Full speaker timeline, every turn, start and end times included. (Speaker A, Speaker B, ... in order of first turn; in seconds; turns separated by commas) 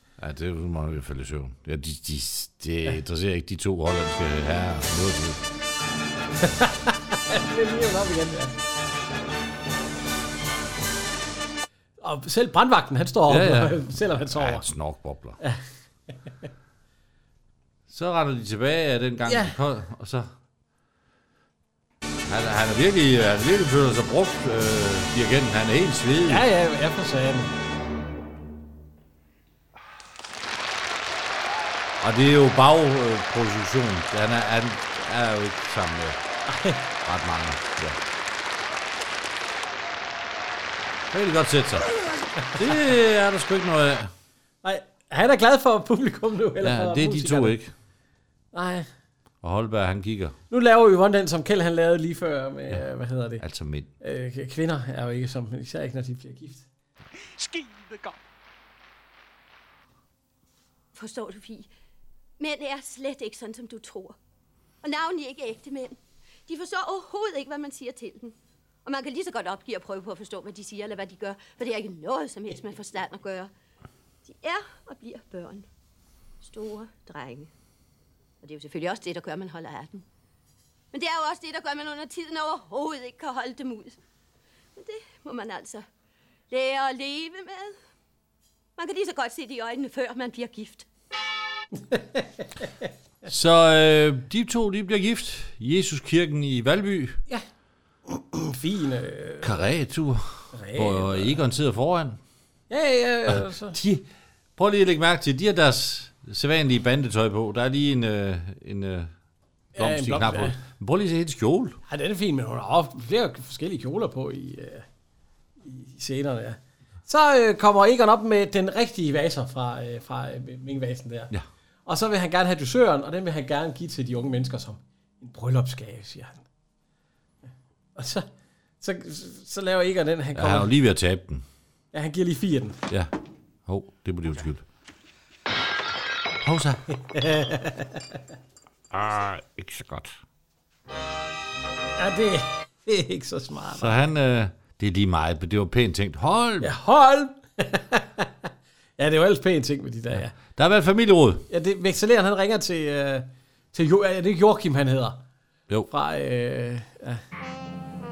Speaker A: 0.2-5.4, Speaker B: 6.4-8.6, Speaker B: 12.0-14.7, Speaker A: 13.3-15.4, Speaker A: 17.9-20.3, Speaker B: 19.3-19.6, Speaker A: 22.2-26.5, Speaker B: 26.3-27.5, Speaker A: 32.0-36.2, Speaker B: 36.5-36.9, Speaker A: 37.0-38.0, Speaker A: 41.1-41.9, Speaker A: 42.5-44.1, Speaker B: 44.6-47.6, Speaker A: 46.6-47.7, Speaker B: 48.5-48.9, Speaker A: 49.4-50.4, Speaker B: 50.5-53.4, Speaker A: 53.4-53.9, Speaker B: 54.0-56.7, Speaker C: 60.9-61.7, Speaker C: 62.4-64.2, Speaker C: 64.8-73.5, Speaker C: 74.2-75.7, Speaker C: 76.4-77.5, Speaker C: 78.4-80.0, Speaker C: 80.9-84.0, Speaker C: 84.8-85.8, Speaker C: 86.5-87.8, Speaker C: 88.8-90.8, Speaker B: 91.9-92.4, Speaker A: 93.3-97.2, Speaker B: 98.1-99.6, Speaker A: 99.4-102.2, Speaker B: 100.5-101.4, Speaker B: 102.7-103.8, Speaker A: 103.3-109.1, Speaker B: 109.8-110.6, Speaker A: 109.8-111.8, Speaker B: 111.9-114.8, Speaker B: 115.6-121.3, Speaker B: 121.8-126.4, Speaker B: 128.0-128.3, Speaker B: 128.8-130.7, Speaker A: 130.3-131.4, Speaker B: 131.9-132.8, Speaker A: 133.7-134.6, Speaker A: 136.4-136.8, Speaker B: 137.0-138.2, Speaker A: 138.9-140.2, Speaker B: 142.0-143.9, Speaker A: 143.7-146.7, Speaker B: 146.6-150.3, Speaker A: 150.1-151.5, Speaker B: 151.5-155.2, Speaker B: 155.9-157.2